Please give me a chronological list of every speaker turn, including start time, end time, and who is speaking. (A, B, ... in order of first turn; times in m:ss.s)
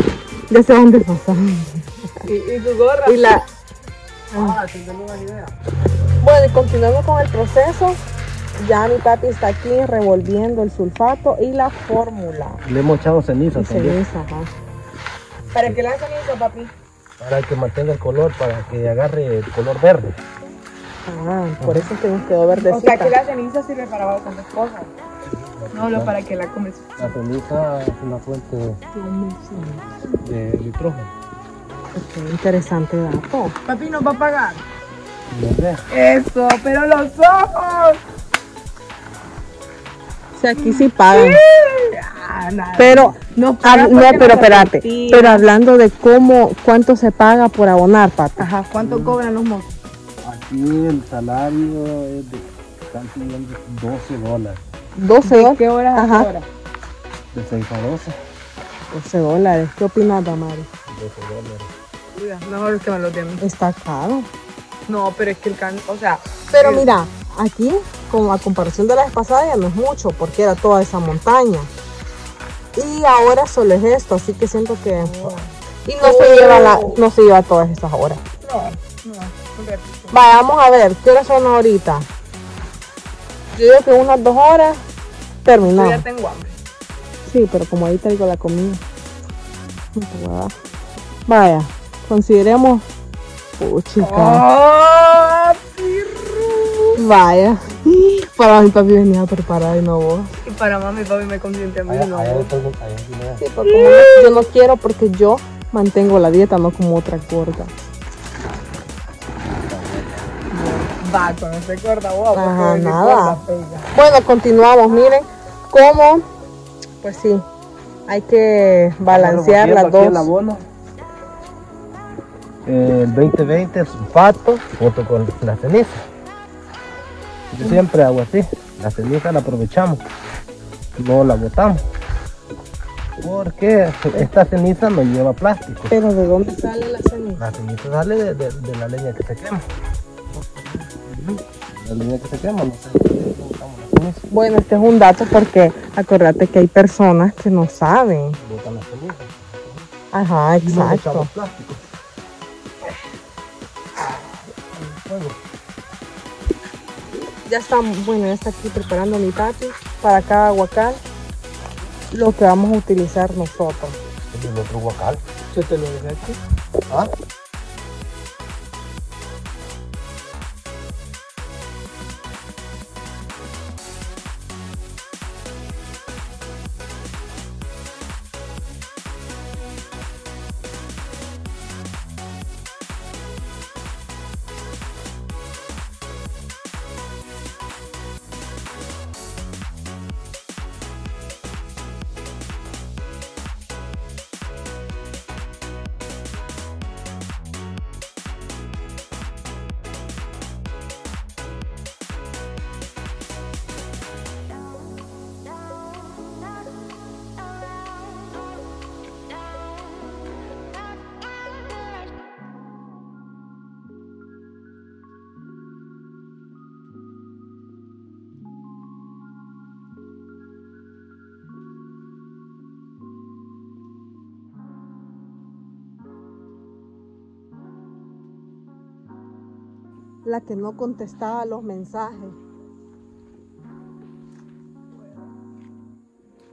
0:00.5-0:02.1 A
0:02.2-0:03.4 B
0:03.0-0:03.4 A
0:04.3-0:05.5 C
0:04.3-0:04.6 A
0:06.2-0:08.0 A
0:08.6-0:12.6 A
0:12.6-0:14.0 C
0:13.5-0:14.5 A
0:15.4-0:15.8 C
0:15.5-0:16.7 B
0:17.2-0:20.2 C
0:21.0-0:23.2 A
0:21.6-0:21.9 C
0:22.5-0:24.9 B
0:25.2-0:26.1 C
0:25.7-0:27.1 B
0:27.0-0:28.8 C
0:29.0-0:29.8 A
0:30.2-0:31.1 C
0:31.9-0:33.6 A
0:33.6-0:34.6 B
0:35.3-0:35.8 C
0:35.9-0:38.0 B
0:40.3-0:41.4 A
0:40.6-0:45.4 B
0:42.8-0:48.5 A
0:48.4-0:49.8 B
0:48.7-0:49.2 C
0:50.2-0:54.6 C
0:54.9-0:56.3 A
0:55.2-0:56.5 B
0:57.3-0:58.2 C
0:58.9-1:00.7 A
1:00.9-1:01.7 C
1:02.1-1:03.4 B
1:03.4-1:04.3 A
1:04.9-1:06.9 B
1:06.5-1:11.7 A
1:12.7-1:18.2 A
1:15.0-1:15.5 B
1:16.0-1:17.0 B
1:18.4-1:20.2 B
1:20.1-1:22.1 A
1:23.5-1:24.8 A
1:25.4-1:26.0 A
1:25.6-1:26.6 B
1:27.2-1:28.8 A
1:29.9-1:30.5 A
1:31.2-1:32.8 A
1:33.6-1:34.5 A
1:34.0-1:37.0 B
1:36.9-1:40.3 A
1:40.4-1:42.5 B
1:41.9-1:43.4 C
1:43.4-1:44.5 B
1:43.5-1:47.7 A
1:49.5-1:50.3 C
1:50.5-1:53.9 B
1:52.3-1:53.4 A
1:53.9-1:56.2 A
1:57.0-1:57.4 A
1:58.1-2:00.3 A
1:59.0-2:00.6 C
2:02.6-2:06.0 C
2:07.5-2:10.0 C
2:11.0-2:11.8 C
2:13.2-2:16.0 C
2:15.9-2:17.4 A
2:17.4-2:19.6 C
2:20.4-2:24.2 C
2:24.3-2:28.4 A
2:28.4-2:29.9 C
2:30.1-2:31.3 A
2:30.6-2:31.8 C
2:34.7-2:35.4 C
2:37.4-2:41.0 A
2:42.1-2:44.0 A
2:44.3-2:45.2 C
2:45.5-2:46.4 B
3:50.2-3:52.4 A